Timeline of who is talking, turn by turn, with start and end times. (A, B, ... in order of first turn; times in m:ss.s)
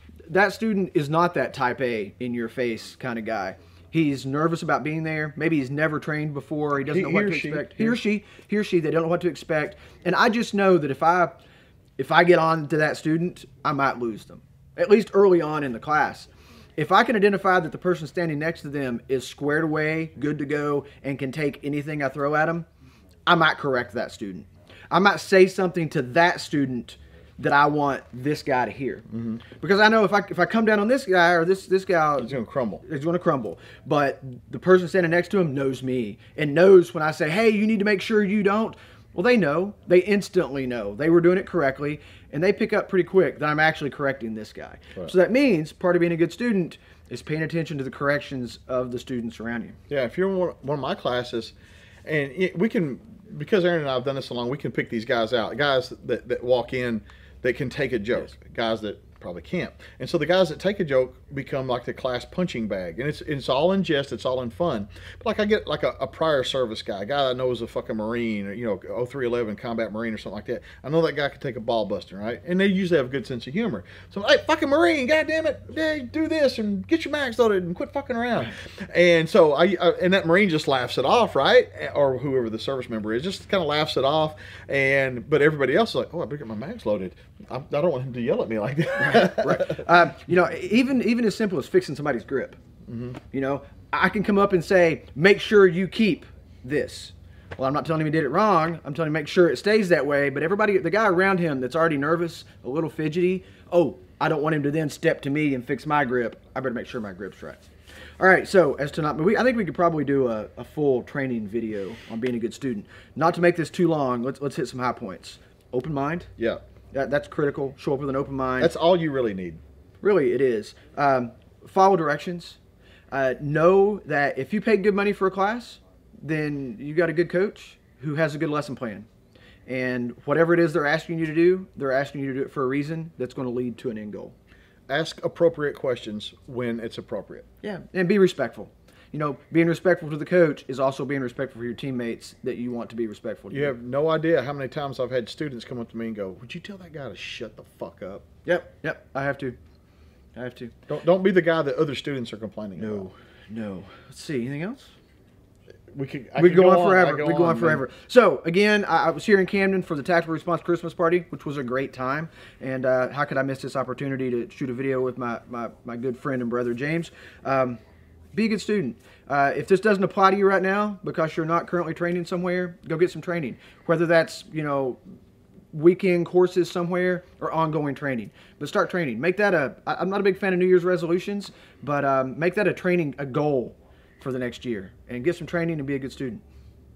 0:00.3-0:11.4 A
0:06.8-0:08.0 B
0:12.0-0:22.7 A
0:23.3-0:29.1 A
0:29.1-0:29.4 B
0:29.6-0:49.8 A
0:32.2-0:32.8 B
0:49.9-0:51.5 B
0:52.1-1:29.8 B
1:29.1-1:32.6 A
1:32.9-1:33.2 B
1:33.3-1:47.6 A
1:48.2-1:56.3 A
1:56.9-1:58.7 A
1:58.6-1:59.6 B
2:00.0-2:02.6 A
2:03.1-2:09.1 A
2:09.7-2:14.4 A
2:14.9-2:17.5 B
2:17.6-2:23.7 A
2:23.5-2:28.2 B
2:28.4-2:29.6 A
2:30.4-2:30.8 A
2:30.9-2:33.1 B
2:32.8-2:34.9 A
2:35.9-2:37.8 B
2:36.4-2:47.8 A
2:48.3-2:55.0 A
2:55.7-3:06.4 A